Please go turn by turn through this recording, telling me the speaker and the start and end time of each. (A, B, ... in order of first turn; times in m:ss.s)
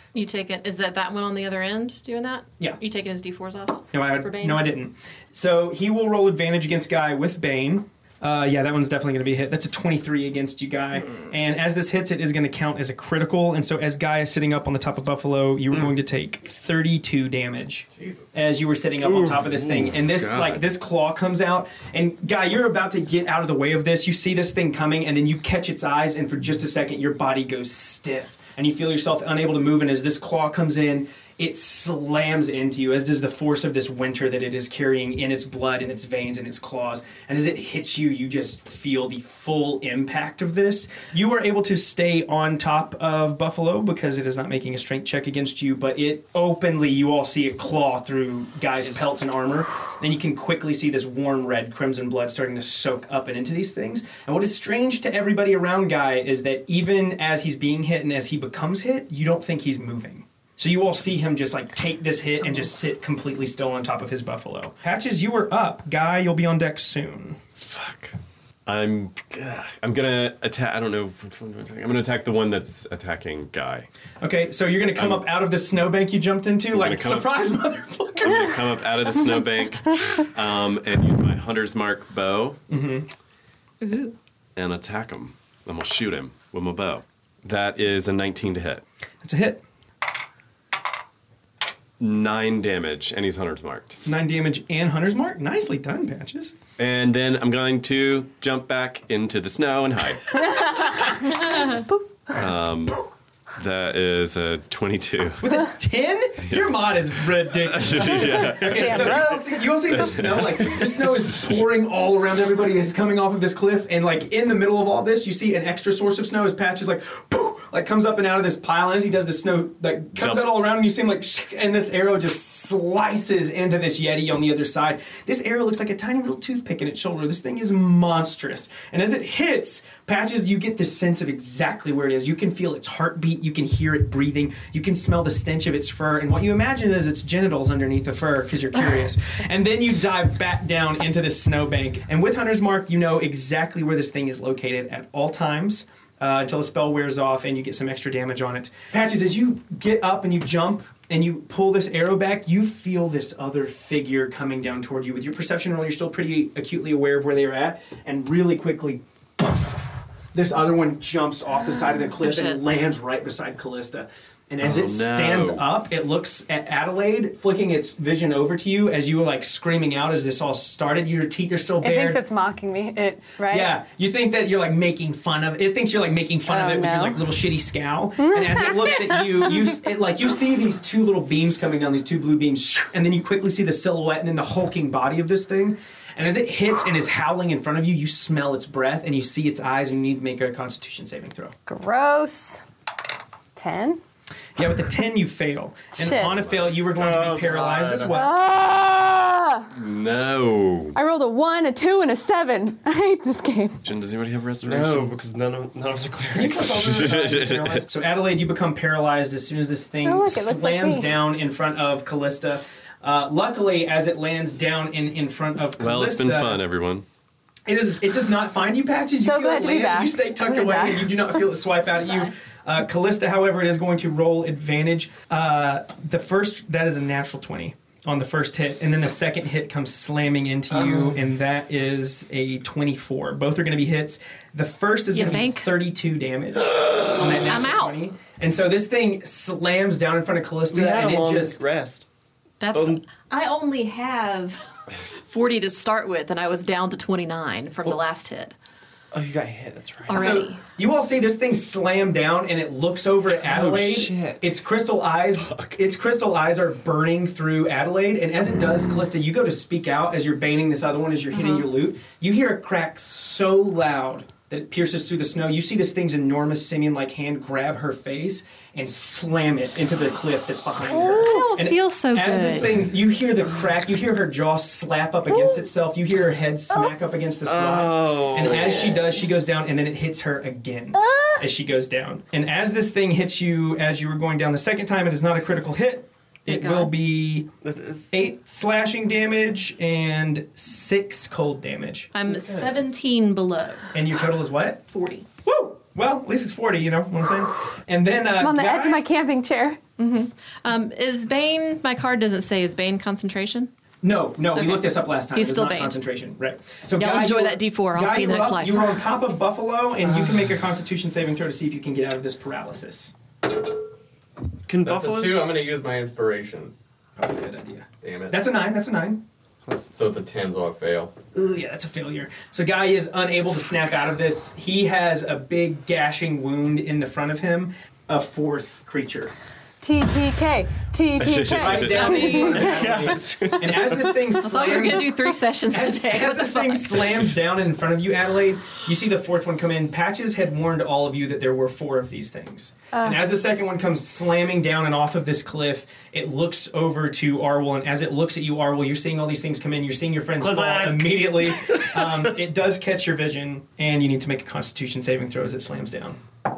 0:00.1-0:04.6 A
0:03.9-1:07.4 B
0:18.0-0:18.3 C
0:19.2-0:20.6 D
1:07.6-1:13.9 D
1:14.2-1:18.6 B
1:14.9-1:15.3 D
1:16.7-1:17.4 D
1:18.2-1:22.6 D
1:22.7-1:23.1 B
1:23.8-1:24.2 A
1:24.6-1:28.8 D
1:29.2-1:29.6 B
1:32.0-1:34.0 D
1:34.0-1:36.6 B
1:36.8-1:40.8 D
1:42.3-1:43.0 D
1:43.6-1:45.5 D
1:45.4-2:39.8 B
1:47.6-1:49.4 D
1:48.0-1:49.6 E
1:49.9-1:51.6 D
2:00.2-2:00.5 D
2:40.3-2:52.2 B
2:42.2-2:42.6 A
2:44.6-2:45.7 D
2:51.8-2:53.7 E
2:53.5-3:11.5 B
2:56.4-2:57.3 E
2:58.2-2:59.4 E
3:11.7-3:12.6 E
3:13.6-3:14.0 E
3:14.6-3:18.3 B
3:16.0-3:16.4 E
3:16.9-3:18.1 F
3:18.1-3:19.7 E
3:19.7-3:21.0 D
3:20.9-3:23.8 E
3:23.8-3:25.1 D
3:24.6-3:26.8 F
3:26.3-3:36.6 B
3:26.6-3:27.8 D
3:30.0-3:31.2 E
3:35.8-3:37.0 D
3:37.6-4:01.6 B
3:39.2-3:41.3 E
3:50.7-3:51.1 F
3:55.1-3:55.7 A
3:56.8-3:57.2 F
3:57.4-3:58.0 A
4:00.7-4:02.1 F
4:02.6-4:04.6 A
4:02.7-4:03.0 F
4:05.3-4:08.5 A
4:09.1-4:10.3 F
4:10.1-4:10.6 A
4:10.1-4:47.5 B
4:13.5-4:14.4 F
4:21.3-4:21.6 A
4:30.9-4:31.5 E
4:31.2-4:32.7 A
4:35.4-4:35.6 E
4:37.4-4:39.1 F
4:41.0-4:41.4 E
4:46.5-4:46.9 A
4:47.6-4:48.1 F
4:48.1-4:52.1 B
4:52.1-4:53.9 A
4:52.2-4:52.9 F
4:53.9-4:54.8 B
4:54.9-4:55.2 A
4:55.4-4:59.0 B
4:58.4-4:59.8 E
5:00.0-5:03.7 A
5:04.0-5:13.1 B
5:04.5-5:06.0 A
5:07.0-5:09.0 A
5:14.7-5:15.5 F
5:14.8-5:16.7 C
5:17.2-5:19.2 B
5:18.0-5:18.4 C
5:19.9-5:21.1 C
5:21.3-5:29.3 B
5:29.8-5:33.0 E
5:31.2-5:32.1 D
5:31.6-5:35.1 B
5:32.6-5:34.0 F
5:34.4-5:37.1 A
5:35.7-5:56.2 B
5:42.9-5:43.2 E
5:50.4-5:52.1 F